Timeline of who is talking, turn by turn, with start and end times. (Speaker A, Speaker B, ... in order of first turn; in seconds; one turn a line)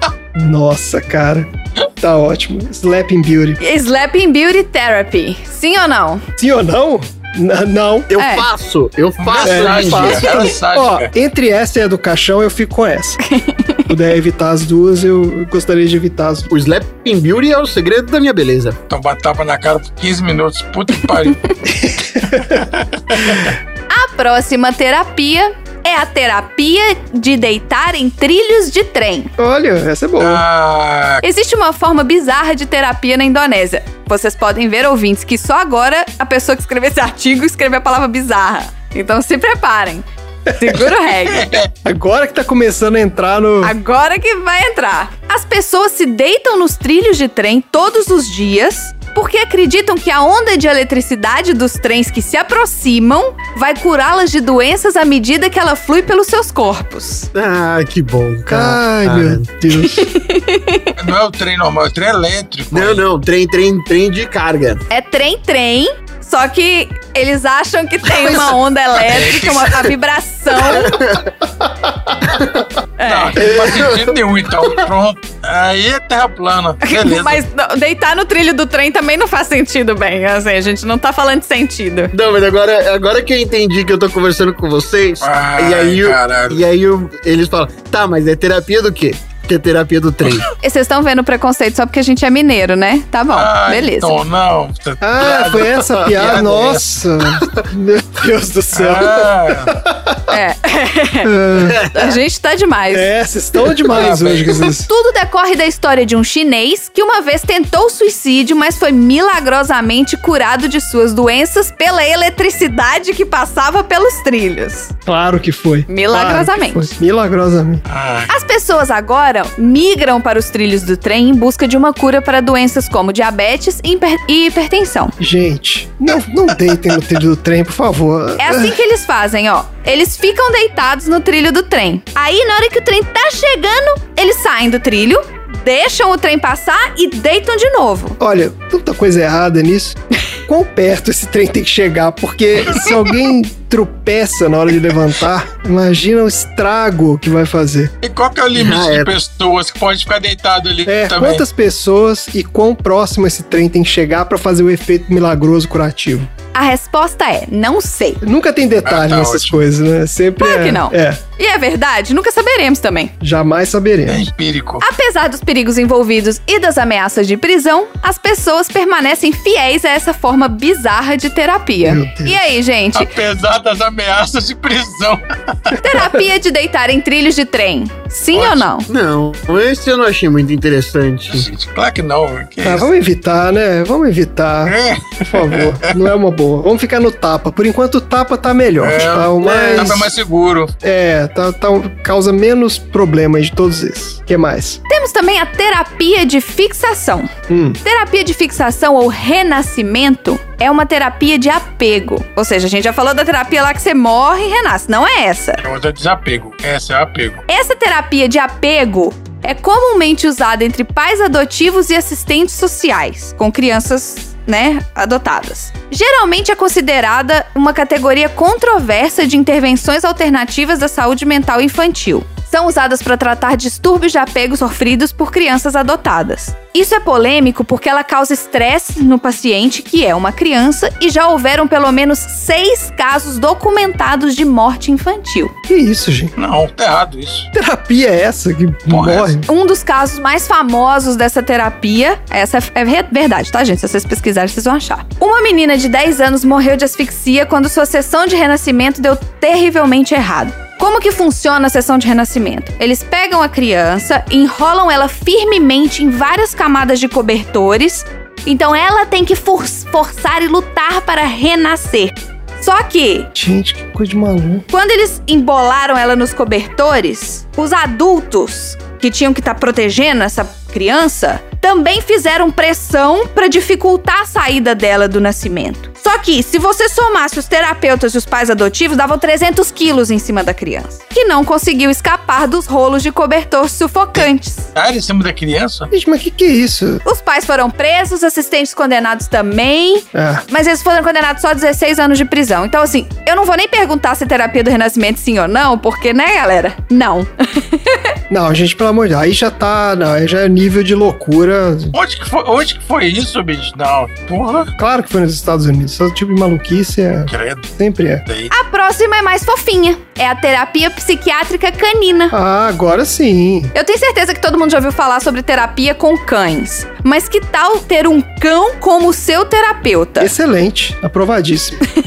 Speaker A: 0.3-3.6
Speaker B: 3.6-6.2
Speaker A: 6.4-8.1
Speaker C: 8.1-10.5
Speaker B: 8.2-8.5
Speaker D: 9.2-11.1
Speaker A: 9.4-13.2
Speaker B: 13.3-13.8
Speaker A: 13.9-16.5
Speaker C: 16.5-18.8
Speaker D: 18.9-21.4
Speaker A: 21.7-22.6
Speaker D: 22.4-23.5
Speaker B: 23.9-29.3
Speaker A: 29.4-30.4
Speaker D: 30.2-31.2
Speaker B: 31.2-41.5
Speaker D: 41.2-41.7
Speaker A: 41.9-43.8
Speaker B: 43.6-57.3
Speaker C: 57.3-59.5
Speaker A: 58.5-60.1
Speaker B: 60.0-60.9
Speaker D: 61.0-63.0
Speaker C: 62.7-64.8
Speaker B: 64.9-71.0
Speaker D: 69.0-69.9
Speaker C: 70.6-71.3
Speaker A: 71.6-72.2
Speaker C: 72.3-72.6
Speaker B: 73.0-73.4
Speaker D: 73.0-77.4
Speaker C: 73.4-74.8
Speaker B: 76.8-82.1
Speaker C: 82.1-90.5
Speaker D: 85.2-86.6
Speaker B: 90.6-94.2
Speaker D: 93.3-97.0
Speaker A: 95.0-100.2
Speaker D: 98.7-99.7
Speaker B: 100.3-101.3
Speaker A: 101.2-101.8
Speaker C: 101.6-102.2
Speaker B: 101.9-103.1
Speaker A: 102.9-104.9
Speaker D: 103.9-104.7
Speaker B: 104.6-114.9
Speaker A: 115.1-117.8
Speaker B: 115.9-116.9
Speaker D: 117.9-118.3
Speaker B: 118.3-125.1
Speaker A: 125.2-128.8
Speaker B: 128.4-138.2
Speaker A: 138.2-147.9
Speaker D: 148.0-151.4
Speaker C: 148.5-149.1
Speaker A: 150.9-156.3
Speaker B: 156.5-158.2
Speaker A: 158.2-161.2
Speaker D: 158.8-159.6
Speaker B: 160.4-163.1
Speaker A: 163.2-164.2
Speaker D: 164.1-164.8
Speaker B: 164.8-173.1
Speaker A: 171.8-172.6
Speaker D: 172.9-175.8
Speaker B: 175.8-178.9
Speaker D: 178.3-178.7
Speaker C: 178.9-181.5
Speaker D: 181.3-182.9
Speaker A: 182.6-190.1
Speaker D: 184.7-185.9
Speaker D: 188.8-190.7
Speaker A: 190.8-194.8
Speaker B: 194.9-197.3
Speaker A: 197.5-197.8
Speaker B: 197.8-205.6
Speaker D: 205.6-207.4
Speaker B: 207.5-235.5
Speaker A: 235.7-236.3
Speaker D: 236.4-237.5
Speaker A: 237.5-239.5
Speaker D: 238.9-239.3
Speaker B: 239.4-263.3
Speaker A: 263.4-264.6
Speaker B: 264.7-284.7
Speaker D: 284.2-285.9
Speaker A: 285.9-287.0
Speaker B: 287.1-298.1
Speaker A: 290.1-290.4
Speaker A: 298.3-301.9
Speaker D: 301.9-304.7
Speaker A: 304.8-308.2
Speaker D: 307.3-307.7
Speaker D: 308.3-308.5
Speaker B: 308.5-312.4
Speaker A: 312.3-313.7
Speaker B: 313.7-320.3
Speaker A: 320.2-321.8